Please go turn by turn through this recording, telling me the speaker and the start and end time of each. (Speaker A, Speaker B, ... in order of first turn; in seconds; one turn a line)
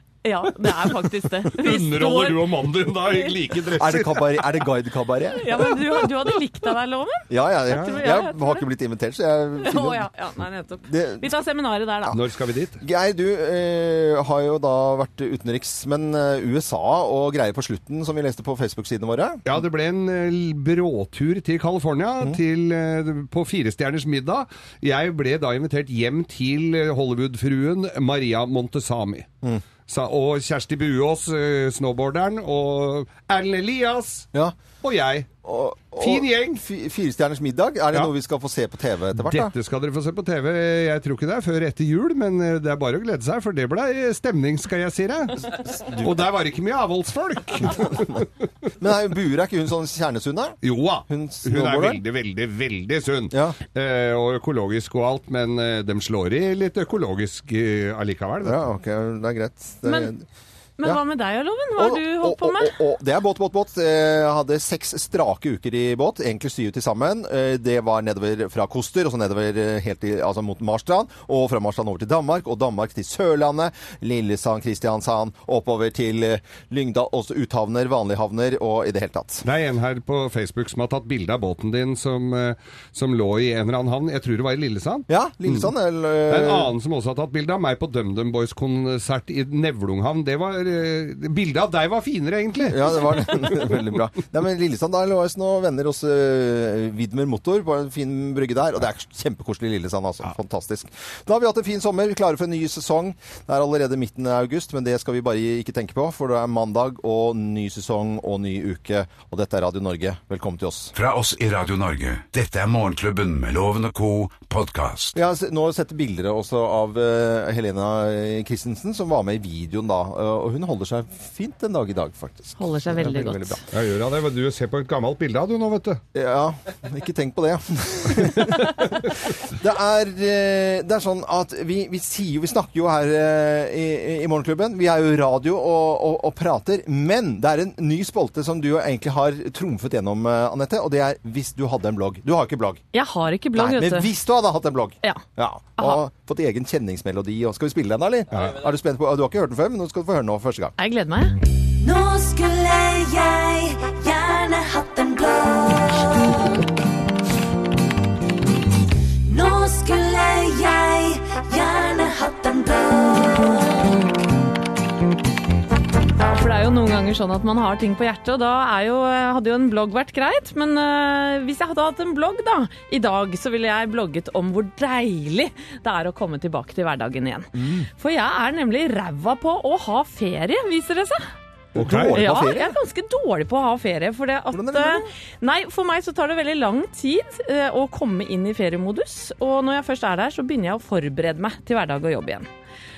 Speaker A: 0.2-3.3
Speaker B: 1.5-4.5
Speaker C: 3.7-5.8
Speaker A: 5.3-8.6
Speaker C: 7.3-10.1
Speaker B: 7.7-8.0
Speaker A: 9.6-12.2
Speaker C: 10.9-11.3
Speaker B: 12.1-12.8
Speaker C: 12.8-19.4
Speaker B: 19.4-29.3
Speaker B: 29.9-34.3
Speaker B: 34.8-35.3
Speaker C: 35.4-39.5
Speaker B: 36.0-36.6
Speaker B: 39.1-48.3
Speaker C: 45.7-46.2
Speaker C: 47.7-48.0
Speaker C: 48.8-52.0
Speaker B: 50.6-58.6
Speaker C: 53.3-53.6
Speaker C: 58.4-60.2
Speaker A: 59.9-60.1
Speaker A: 60.8-62.8
Speaker C: 61.8-79.5
Speaker B: 79.4-85.7
Speaker C: 85.1-86.7
Speaker B: 86.3-93.8
Speaker C: 92.7-110.9
Speaker D: 111.0-115.2
Speaker C: 115.2-123.6
Speaker A: 122.6-123.6
Speaker B: 123.7-126.0
Speaker C: 126.1-142.8
Speaker A: 142.9-144.1
Speaker C: 143.6-150.7
Speaker B: 148.3-148.6
Speaker A: 150.8-151.3
Speaker E: 151.8-156.6
Speaker E: 159.3-164.0
Speaker A: 166.2-181.3
Speaker C: 177.5-177.9
Speaker B: 181.8-182.2
Speaker C: 181.8-182.8
Speaker A: 182.1-192.5
Speaker C: 184.5-185.1